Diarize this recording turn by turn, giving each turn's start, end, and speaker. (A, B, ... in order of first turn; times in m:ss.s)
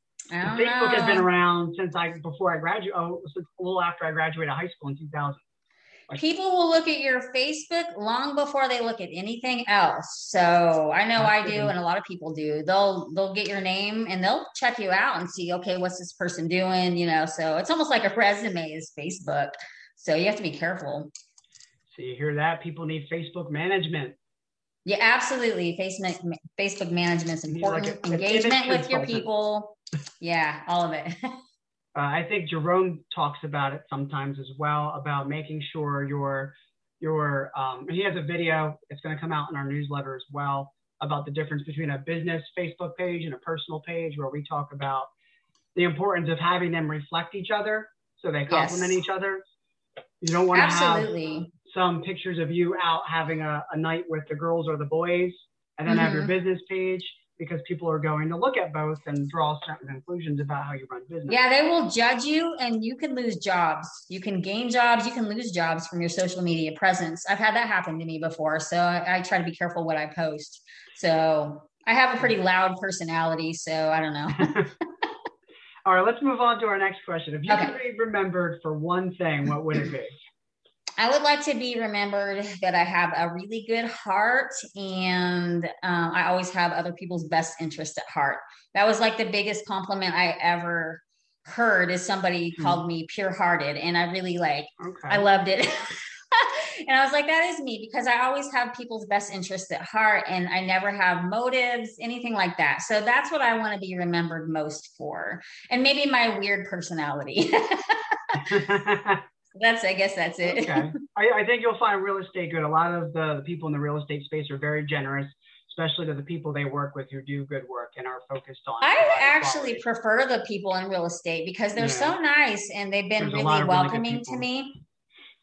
0:00.3-0:01.2 A
0:00.4-0:05.4 B
0:06.1-0:21.1 A
0:11.2-0:11.7 B
0:21.9-0:24.2 B
0:24.8-0:31.2 A
0:27.5-0:29.3 B
0:31.9-0:45.1 B
0:45.7-0:49.4 B
0:48.5-0:49.0 A
0:50.2-0:51.1 B
0:50.5-0:51.5 A
0:51.7-1:01.4 B
0:55.9-0:56.3 A
1:01.3-1:14.5 A
1:14.3-1:14.7 B
1:15.8-1:20.1 B
1:17.5-1:17.7 A
1:21.0-1:48.5 A
1:32.6-1:32.8 B
1:34.8-1:35.2 B
1:48.4-1:49.2 B
1:49.5-1:50.9 A
1:50.4-1:59.8 B
1:58.8-2:04.7 A
2:01.8-2:02.1 B
2:03.2-2:04.4 B